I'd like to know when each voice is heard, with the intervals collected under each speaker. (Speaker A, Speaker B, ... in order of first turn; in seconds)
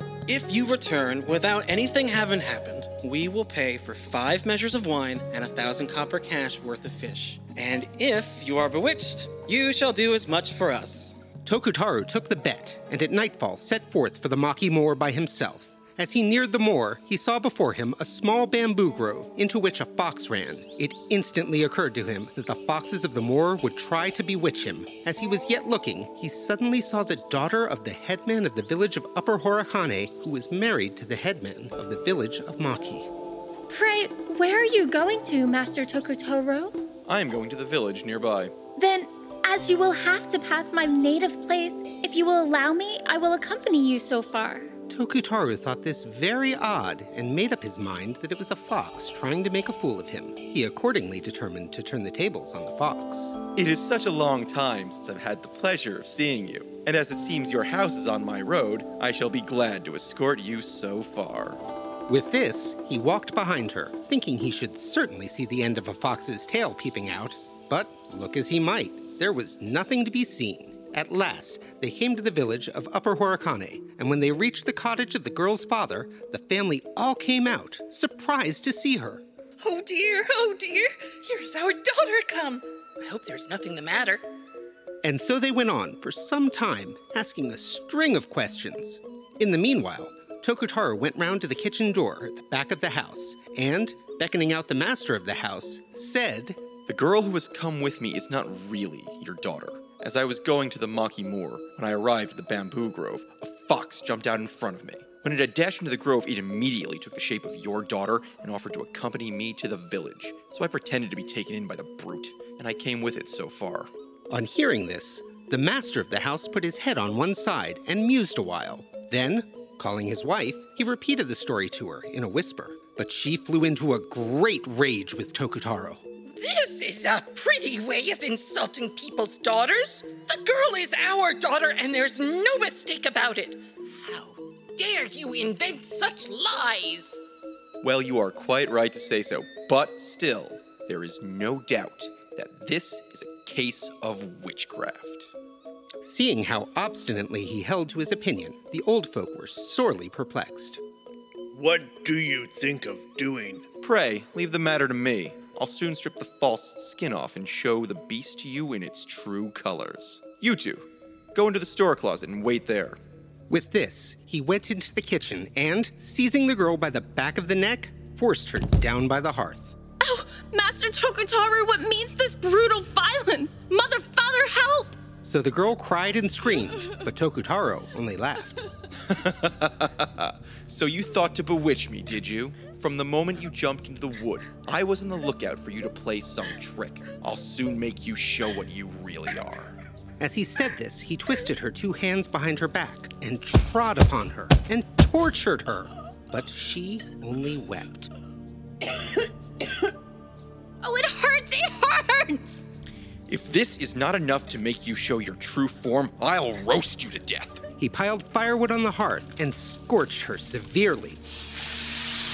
Speaker A: 0.3-11.2
Speaker B: 11.4-33.1, 44.9-53.4, 62.1-79.2, 85.0-96.6, 114.3-126.0, 146.0-150.8, 163.5-169.8, 175.2-178.6, 190.2-198.1, 207.8-211.2
Speaker C: 33.7-36.8, 38.7-44.7, 170.0-175.0, 200.8-202.7
Speaker D: 37.1-38.5, 53.5-61.6, 96.9-113.9, 137.8-145.3, 153.8-163.0, 179.1-189.7, 203.3-207.6
Speaker E: 79.6-84.2, 126.3-137.2
Speaker F: 151.5-153.6